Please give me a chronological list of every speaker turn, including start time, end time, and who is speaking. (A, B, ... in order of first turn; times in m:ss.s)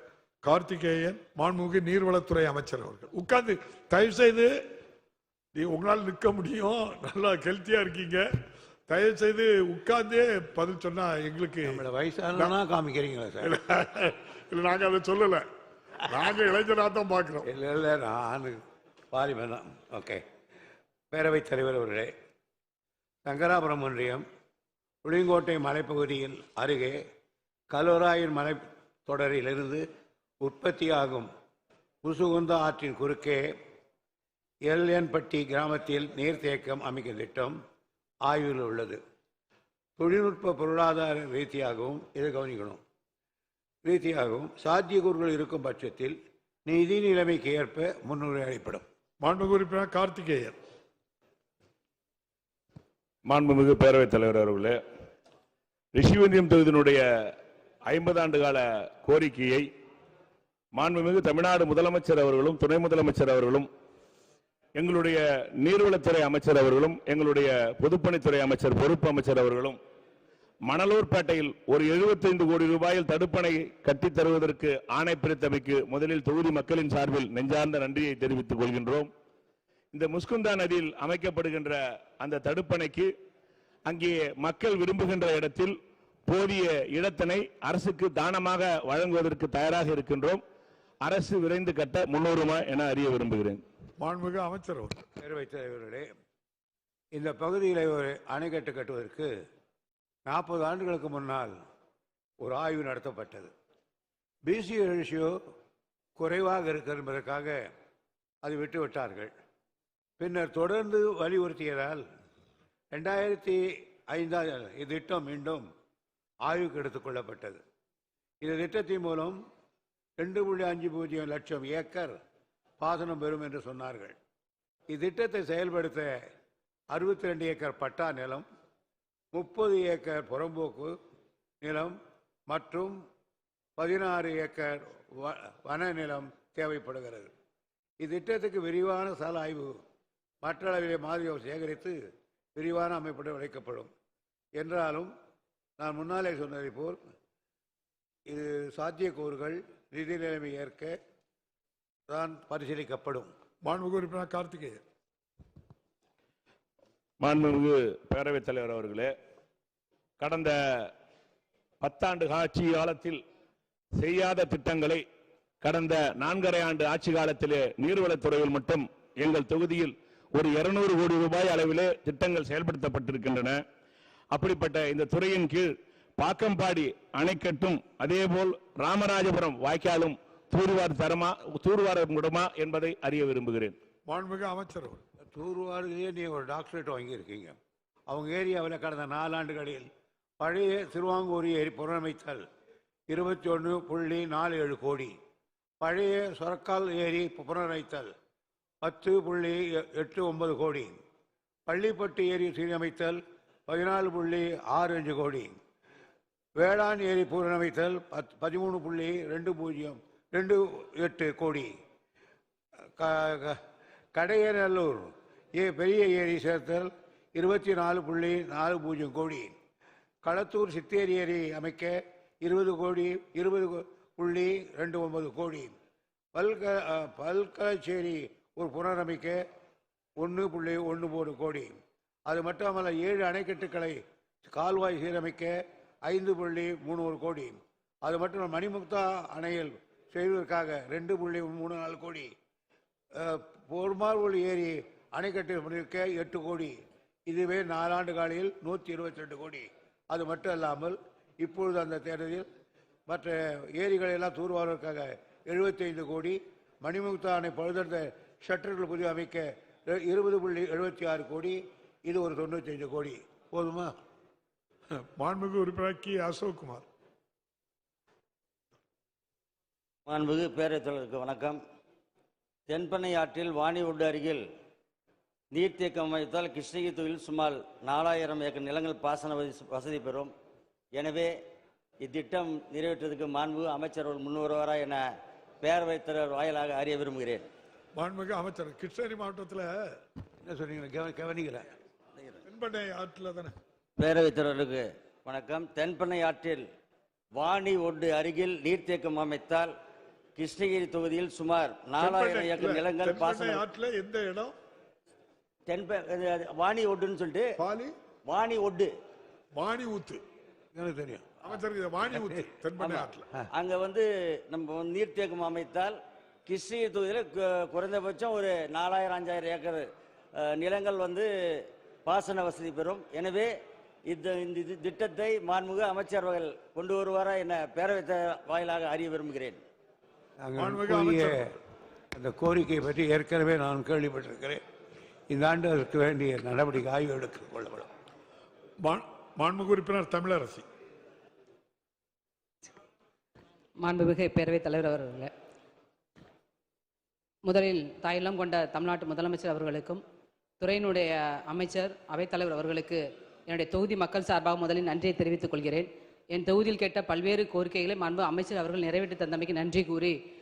0:00.4-0:04.5 A
0:05.5-0:08.2 A
0:08.9-0:11.8 A
0:11.6-0:13.6 B
0:13.5-0:15.4 A
0:16.0-0:17.4 A
0:17.4-0:18.6 B
0:19.1-0:20.2 B
0:21.1-0:22.1 B
0:23.2-0:24.2 B
0:25.0-0:27.0 B
0:27.7-0:29.8 B
0:30.4-0:31.3 B
0:32.0-0:33.4 B
0:34.7-0:37.6 B
0:38.2-0:39.0 B
0:40.0-0:42.8 B
0:43.8-0:48.8 B
0:49.2-0:50.6 A
0:53.3-0:54.8 C
0:55.9-0:57.0 C
0:57.9-0:59.6 C
1:00.7-1:03.7 C
1:04.8-1:09.8 C
1:10.6-1:19.1 C
1:19.9-1:23.1 C
1:23.8-1:25.8 C
1:26.3-1:30.4 C
1:31.0-1:33.6 C
1:34.0-1:35.0 A
1:35.2-1:36.1 B
1:37.1-1:39.3 B
1:40.3-1:41.5 B
1:42.4-1:43.5 B
1:44.4-1:45.3 B
1:46.2-1:47.6 B
1:48.4-1:49.3 B
1:50.2-1:52.0 B
1:52.9-1:55.6 B
1:56.4-1:57.6 B
1:58.4-1:59.4 B
2:00.2-2:02.1 B
2:02.8-2:04.2 B
2:04.9-2:06.2 B
2:06.9-2:08.4 B
2:09.3-2:10.9 B
2:11.6-2:11.9 B
2:12.5-2:13.0 B
2:13.8-2:17.3 B
2:18.0-2:19.7 B
2:20.4-2:22.0 B
2:22.6-2:23.9 B
2:24.6-2:25.1 B
2:25.8-2:27.0 B
2:28.3-2:31.0 B
2:32.1-2:33.3 B
2:33.6-2:34.8 A
2:37.2-2:39.1 C
2:40.2-2:40.9 C
2:41.8-2:43.2 C
2:44.0-2:45.0 C
2:45.6-2:53.6 C
2:54.3-3:03.8 C
3:04.1-3:05.0 A
3:05.3-3:07.6 B
3:08.1-3:09.9 B
3:10.4-3:12.4 B
3:13.1-3:15.1 B
3:15.8-3:18.1 B
3:18.8-3:21.0 B
3:21.7-3:25.5 B
3:26.6-3:31.7 B
3:33.0-3:33.6 B
3:34.1-3:39.5 B
3:40.2-3:45.7 B
3:46.3-3:49.4 B
3:50.2-3:51.7 B
3:52.3-3:55.5 B
3:56.1-4:02.3 B
4:03.2-4:06.7 B
4:07.3-4:12.5 B
4:13.1-4:23.9 B
4:25.2-4:26.8 A
4:30.1-4:31.6 D
4:32.7-4:34.4 D
4:35.5-4:40.3 D
4:41.0-4:41.3 D
4:42.0-4:45.0 D
4:45.6-4:47.5 D
4:47.9-4:49.9 A
4:50.4-4:51.7 B
4:52.5-4:53.5 A
4:54.0-4:56.6 D
4:57.4-4:59.7 D
5:00.4-5:03.6 D
5:02.0-5:04.5 A
5:05.7-5:07.5 D
5:07.6-5:07.9 A
5:08.3-5:08.9 D
5:09.5-5:10.2 A
5:10.7-5:11.2 B
5:11.4-5:13.2 A
5:12.2-5:12.4 B
5:12.8-5:15.9 D
5:16.5-5:19.8 D
5:20.4-5:21.3 D
5:22.0-5:23.5 D
5:24.1-5:29.6 D
5:30.4-5:31.5 B
5:30.6-5:31.4 A
5:32.1-5:34.6 B
5:35.3-5:37.9 B
5:38.8-5:40.6 A
5:43.8-5:45.3 E
5:47.4-5:50.0 E
5:50.6-6:00.1 E